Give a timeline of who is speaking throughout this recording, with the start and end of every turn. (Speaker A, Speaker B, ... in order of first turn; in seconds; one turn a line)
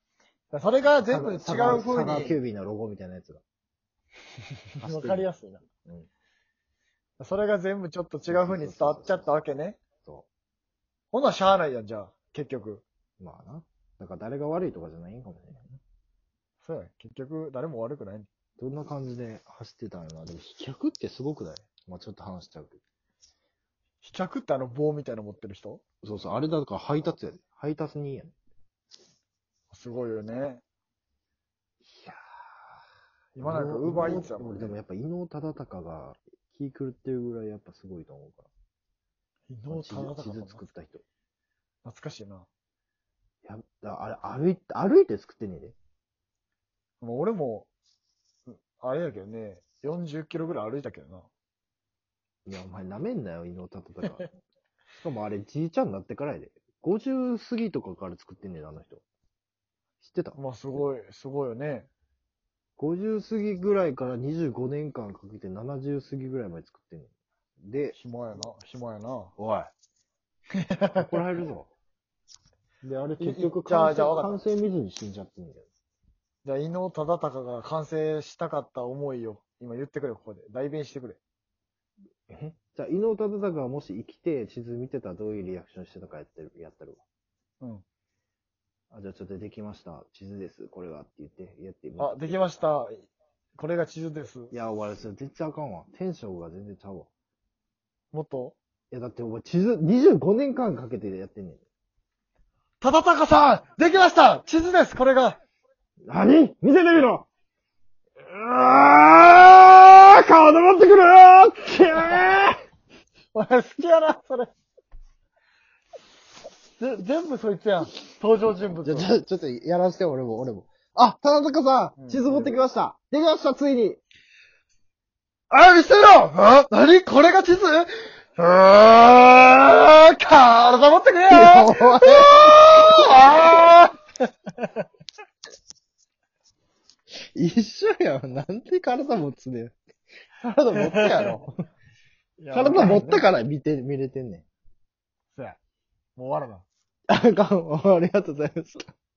Speaker A: 0.5-2.4
Speaker B: 1.1-3.4
Speaker A: 4.8-5.6
Speaker B: 4.8-5.3
Speaker A: 7.2-9.8
Speaker B: 8.3-9.3
Speaker A: 11.1-12.8
Speaker B: 13.2-15.8
Speaker A: 16.6-18.3
Speaker B: 18.6-22.8
Speaker A: 24.0-25.8
Speaker B: 26.0-28.3
Speaker A: 29.7-30.6
Speaker B: 31.9-32.2
Speaker A: 33.4-34.8
Speaker B: 33.4-38.5
Speaker A: 39.5-40.6
Speaker B: 39.7-41.0
Speaker A: 41.8-42.5
Speaker B: 43.5-45.8
Speaker A: 47.0-47.7
Speaker A: 48.5-51.3
Speaker B: 52.5-54.3
Speaker B: 55.0-59.0
Speaker B: 60.0-60.4
Speaker A: 60.4-61.9
Speaker B: 62.8-67.1
Speaker B: 67.6-68.0
Speaker A: 67.9-69.3
Speaker B: 69.4-69.7
Speaker A: 70.6-71.1
Speaker B: 71.0-71.7
Speaker B: 72.8-75.7
Speaker A: 73.2-74.4
Speaker A: 76.5-81.2
Speaker B: 82.3-87.0
Speaker B: 88.9-92.4
Speaker A: 92.0-94.5
Speaker B: 94.5-97.1
Speaker A: 98.1-98.6
Speaker B: 98.9-101.6
Speaker A: 102.8-105.4
Speaker B: 106.1-107.3
Speaker B: 108.2-112.6
Speaker A: 113.3-114.5
Speaker A: 116.8-119.1
Speaker B: 118.8-124.0
Speaker A: 122.0-122.5
Speaker A: 125.5-134.0
Speaker B: 131.3-133.5
Speaker A: 134.6-134.8
Speaker B: 137.3-139.8
Speaker B: 140.4-141.5
Speaker A: 140.7-141.4
Speaker A: 142.4-143.3
Speaker B: 142.5-144.4
Speaker A: 145.3-145.6
Speaker A: 146.2-146.7
Speaker B: 147.1-148.9